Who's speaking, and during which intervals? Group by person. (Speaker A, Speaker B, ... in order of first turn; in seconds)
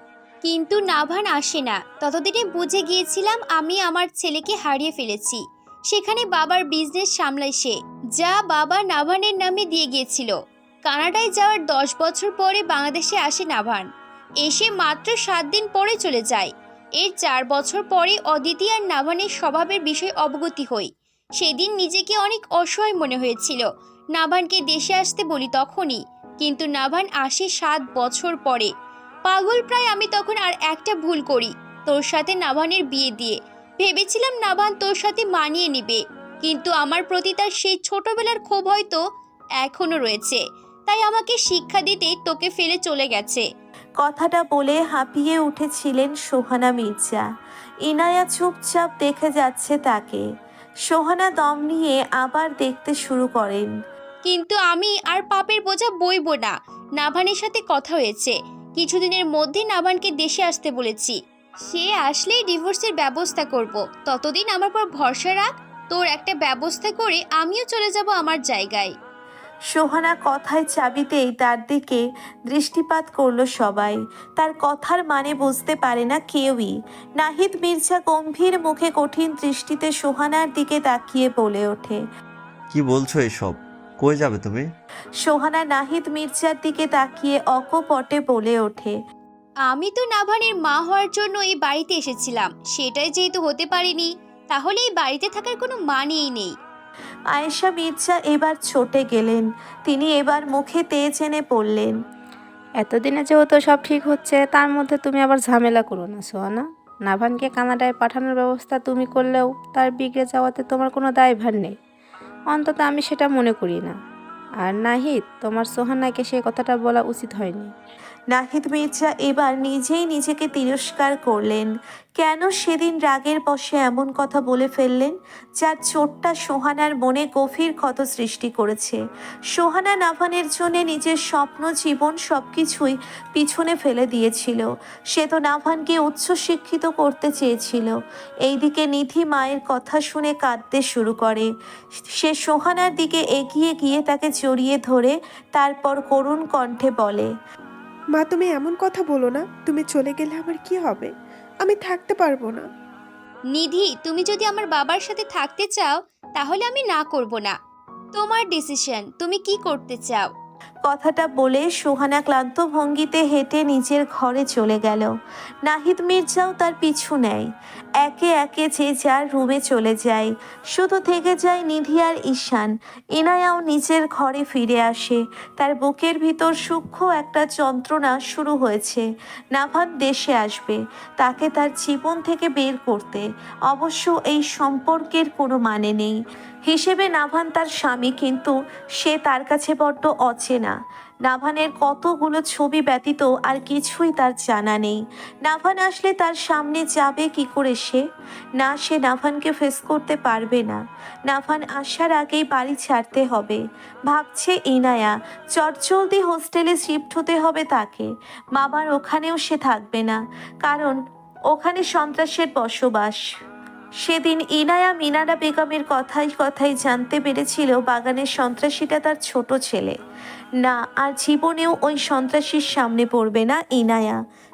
Speaker A: 0.4-10.3, 10.8-13.9, 14.4-28.7, 29.3-39.0, 39.6-43.4, 54.3-68.9, 89.7-96.5, 153.5-157.5, 158.1-160.3
Speaker B: 44.0-47.2, 47.9-50.2, 50.9-53.7, 69.7-82.0, 85.2-89.0, 97.3-101.9, 118.3-129.0, 129.6-138.0, 138.5-141.5, 142.2-147.3, 160.9-165.1, 165.7-167.5, 168.0-190.8, 191.3-198.0, 198.6-211.0, 211.5-213.2, 214.0-220.0, 220.6-224.2
Speaker C: 82.7-84.7
Speaker D: 102.8-111.8, 112.5-114.0, 114.6-117.7
Speaker E: 148.1-152.7